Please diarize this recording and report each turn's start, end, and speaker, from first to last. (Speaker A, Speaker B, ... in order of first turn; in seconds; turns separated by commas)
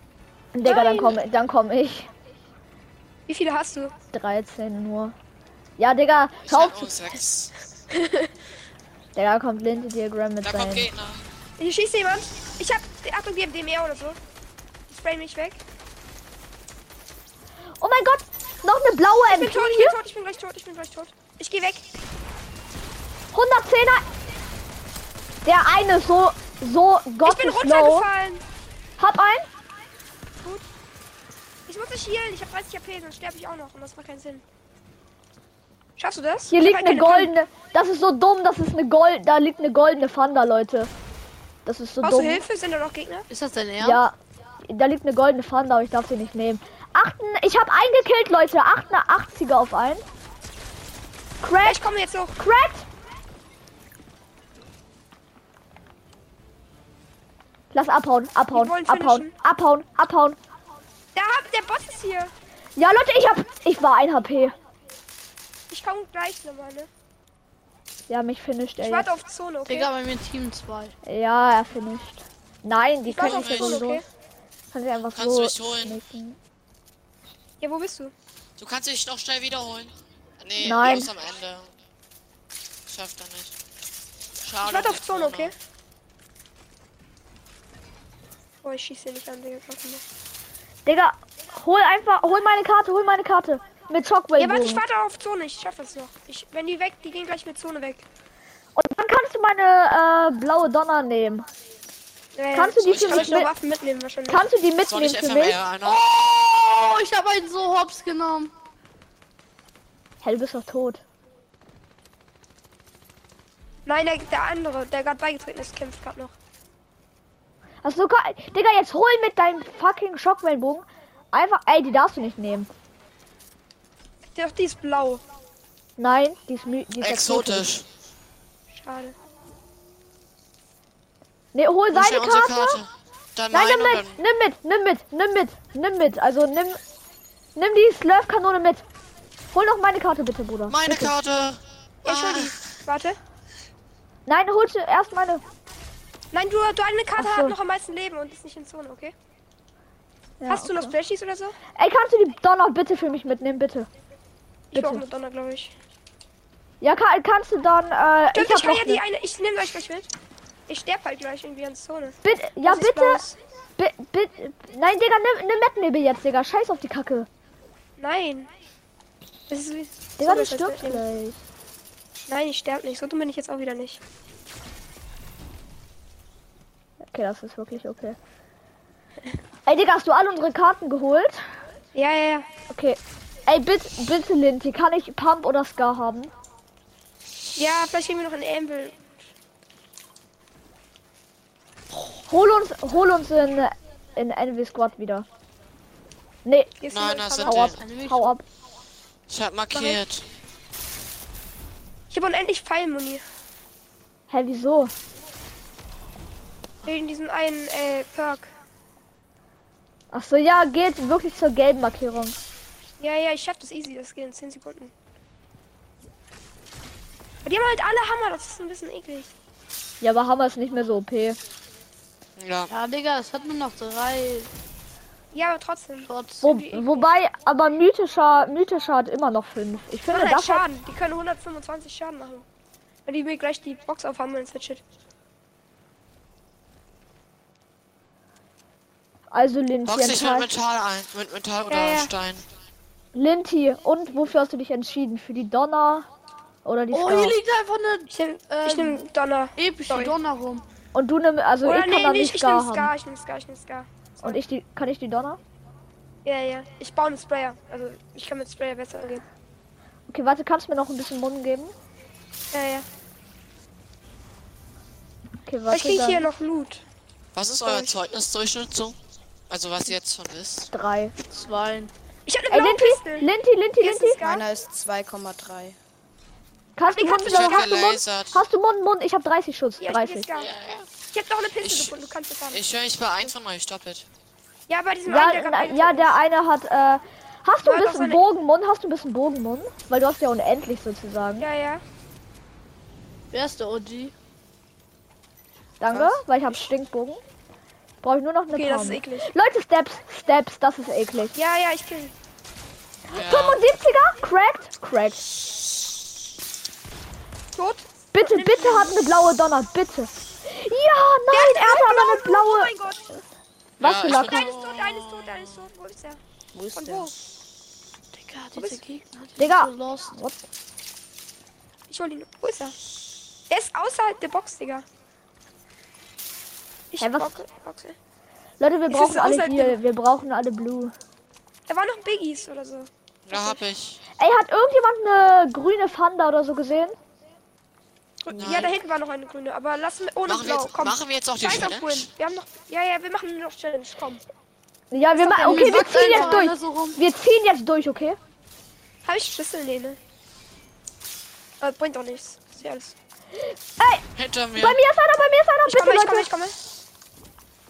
Speaker A: 0.5-2.1, Speaker B: 0.6-1.2, Speaker B: 3.3-3.9, Speaker A: 4.1-5.1, Speaker A: 5.8-7.0, Speaker C: 6.4-7.5, Speaker B: 7.9-8.3, Speaker A: 9.2-10.9, Speaker C: 10.4-11.2, Speaker B: 11.6-14.2, Speaker B: 14.9-15.6, Speaker A: 17.8-20.0, Speaker B: 19.3-21.9, Speaker A: 23.3-24.0, Speaker A: 25.4-28.1, Speaker B: 27.2-28.4, Speaker A: 29.0-29.5, Speaker B: 31.7-34.4, Speaker B: 36.0-37.3, Speaker A: 36.5-40.9, Speaker A: 41.6-42.4, Speaker B: 42.0-43.3, Speaker D: 43.3-44.0, Speaker A: 43.8-44.1, Speaker A: 44.7-50.0, Speaker A: 51.4-51.8, Speaker B: 51.6-52.4, Speaker A: 52.4-52.9, Speaker A: 57.7-60.4, Speaker B: 58.5-59.3, Speaker B: 61.1-62.3, Speaker A: 62.8-64.5, Speaker B: 65.7-66.9, Speaker A: 68.1-69.1, Speaker B: 68.8-69.9, Speaker D: 69.7-71.0, Speaker A: 71.0-74.0, Speaker B: 73.0-74.0, Speaker C: 73.2-73.8, Speaker A: 74.7-76.4, Speaker C: 75.1-76.0, Speaker B: 77.6-78.1, Speaker C: 78.6-81.7, Speaker A: 80.6-81.1, Speaker C: 82.9-83.5, Speaker C: 84.4-85.5, Speaker B: 84.6-85.5, Speaker B: 88.6-90.0, Speaker A: 90.8-94.8, Speaker B: 94.4-98.0, Speaker A: 98.8-101.5, Speaker B: 102.3-104.5, Speaker A: 102.5-103.5, Speaker C: 102.9-103.4, Speaker A: 104.3-105.6, Speaker C: 104.9-106.0, Speaker D: 105.9-108.5, Speaker A: 110.2-111.0, Speaker B: 113.9-116.3, Speaker A: 117.8-122.7, Speaker B: 124.3-125.2, Speaker A: 126.0-127.7, Speaker C: 127.0-127.9, Speaker B: 128.7-129.2, Speaker A: 131.5-132.8, Speaker C: 131.9-134.2, Speaker A: 133.5-136.8, Speaker A: 137.5-138.8, Speaker A: 139.5-141.1, Speaker C: 140.7-142.6, Speaker B: 142.0-143.2, Speaker A: 144.2-145.4, Speaker B: 146.3-149.1, Speaker A: 147.2-147.5, Speaker A: 150.4-150.9, Speaker B: 150.5-151.6, Speaker A: 151.8-153.9, Speaker B: 154.7-155.7, Speaker A: 154.7-155.0, Speaker A: 156.8-159.0, Speaker B: 158.3-160.1, Speaker B: 160.7-163.3, Speaker A: 162.2-163.2, Speaker A: 163.8-167.3, Speaker B: 168.0-168.5, Speaker B: 169.5-171.0, Speaker A: 170.2-171.4, Speaker B: 172.3-174.0, Speaker A: 177.1-178.2, Speaker A: 179.7-181.4, Speaker B: 181.9-182.5, Speaker A: 182.7-186.3, Speaker B: 187.6-189.0, Speaker A: 192.0-195.2, Speaker A: 196.4-196.8, Speaker B: 196.8-197.6, Speaker C: 196.9-197.8, Speaker A: 197.5-198.4, Speaker D: 197.8-198.3, Speaker C: 199.3-200.2, Speaker B: 202.1-203.2, Speaker A: 204.3-204.9, Speaker B: 206.8-208.5, Speaker A: 210.1-212.4, Speaker B: 213.0-214.9, Speaker B: 217.4-219.3, Speaker A: 220.0-221.4, Speaker C: 222.4-222.7, Speaker D: 222.7-224.5, Speaker B: 225.3-227.1, Speaker D: 226.0-226.4, Speaker A: 226.4-230.6, Speaker B: 230.1-232.4, Speaker B: 233.1-234.8, Speaker A: 239.3-240.5, Speaker C: 239.8-242.5, Speaker B: 241.7-242.1, Speaker A: 243.1-246.1, Speaker A: 246.6-247.4, Speaker D: 246.9-249.0, Speaker B: 248.1-250.2, Speaker D: 249.6-250.6, Speaker A: 250.9-252.9, Speaker B: 251.6-254.4, Speaker A: 254.2-255.4, Speaker B: 256.2-259.2, Speaker A: 260.1-261.7, Speaker B: 262.5-262.9, Speaker A: 265.5-266.3, Speaker B: 265.7-266.8, Speaker C: 267.3-269.0, Speaker B: 267.6-267.9, Speaker C: 269.5-270.7, Speaker A: 270.7-271.1, Speaker D: 271.3-271.9, Speaker B: 272.3-274.4, Speaker A: 272.5-274.2, Speaker E: 274.2-275.8, Speaker A: 276.8-280.2, Speaker B: 276.9-277.8, Speaker C: 277.2-278.4, Speaker B: 279.8-280.5, Speaker C: 280.5-280.8, Speaker B: 281.1-282.6, Speaker C: 281.6-281.9, Speaker C: 282.5-284.1, Speaker B: 284.7-286.1, Speaker A: 285.1-291.5, Speaker B: 287.6-288.2, Speaker B: 291.4-291.8, Speaker D: 293.3-294.1, Speaker A: 295.8-297.2, Speaker A: 298.0-301.3, Speaker B: 298.5-299.3, Speaker B: 301.3-302.1, Speaker A: 303.1-305.2, Speaker C: 303.1-303.6, Speaker B: 307.5-309.0, Speaker A: 308.1-312.7, Speaker B: 311.3-313.0, Speaker A: 313.8-314.5, Speaker C: 313.8-315.7, Speaker B: 314.1-316.2, Speaker E: 316.5-317.1, Speaker B: 316.7-317.1, Speaker D: 318.1-320.1, Speaker B: 318.6-318.8, Speaker A: 319.4-320.4, Speaker B: 321.9-322.8, Speaker B: 323.5-324.8, Speaker B: 326.9-328.0, Speaker A: 327.0-327.3, Speaker A: 328.6-330.9, Speaker B: 328.9-329.8, Speaker B: 331.7-333.6, Speaker C: 333.3-334.0, Speaker A: 334.2-337.0, Speaker B: 338.2-344.2, Speaker C: 338.3-338.7, Speaker A: 338.4-338.7, Speaker C: 340.2-342.1, Speaker A: 344.9-348.2, Speaker B: 345.2-346.5, Speaker D: 345.4-347.0, Speaker B: 349.0-350.0, Speaker B: 351.6-352.9, Speaker A: 353.8-354.0, Speaker C: 354.2-354.8, Speaker A: 354.6-356.3, Speaker B: 355.7-356.6